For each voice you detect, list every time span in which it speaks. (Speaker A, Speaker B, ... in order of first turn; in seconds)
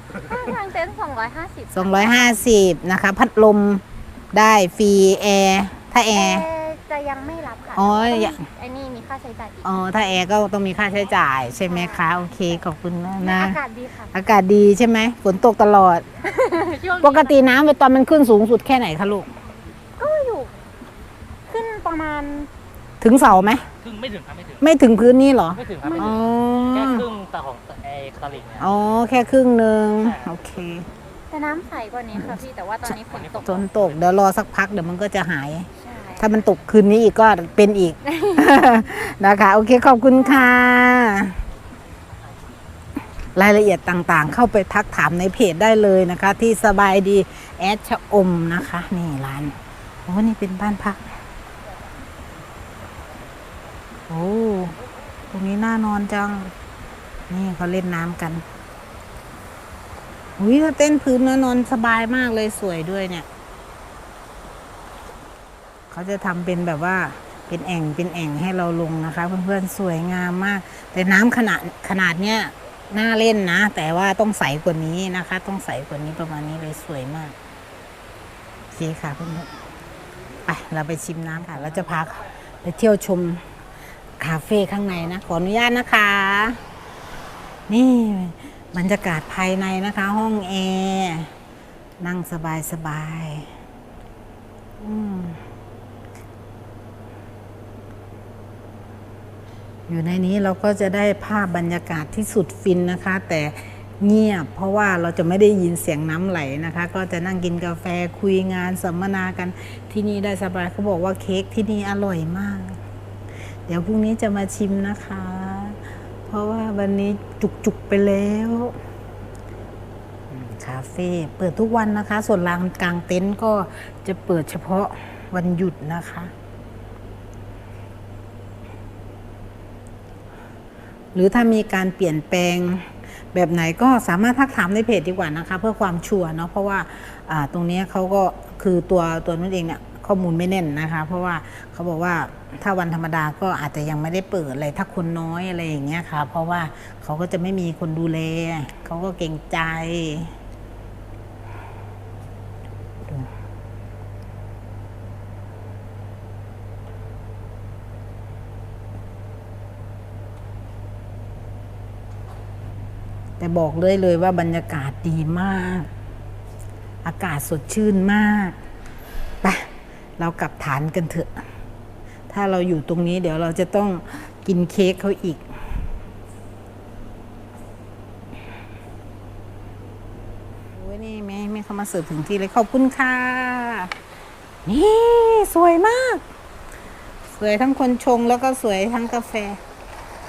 Speaker A: 0.1-2.4, 6.1-9.8, 11.7-12.4, 13.2-14.1, 16.2-17.3, 20.0-20.5, 21.5-22.5, 25.8-26.2, 31.3-33.6, 35.8-36.3, 38.2-38.5
Speaker B: 1.7-6.5, 7.8-8.4, 9.6-13.6, 14.1-16.1, 17.0-19.3, 23.0-23.7, 24.6-27.1, 28.6-30.9, 32.9-41.4, 43.4-51.0, 54.1-54.8, 55.3-56.5, 57.3-58.4, 60.4-63.3, 65.9-77.4, 78.7-79.5, 80.5-83.4, 84.2-86.6, 87.7-91.3, 92.0-93.5, 94.8-95.4, 99.9-112.8, 113.7-118.8, 120.3-126.3, 131.2-150.3, 163.4-165.9, 167.0-168.6, 169.4-171.4, 172.3-175.4, 180.8-183.9, 184.7-186.2, 187.3-189.6
Speaker C: 23.9-24.5, 27.0-28.6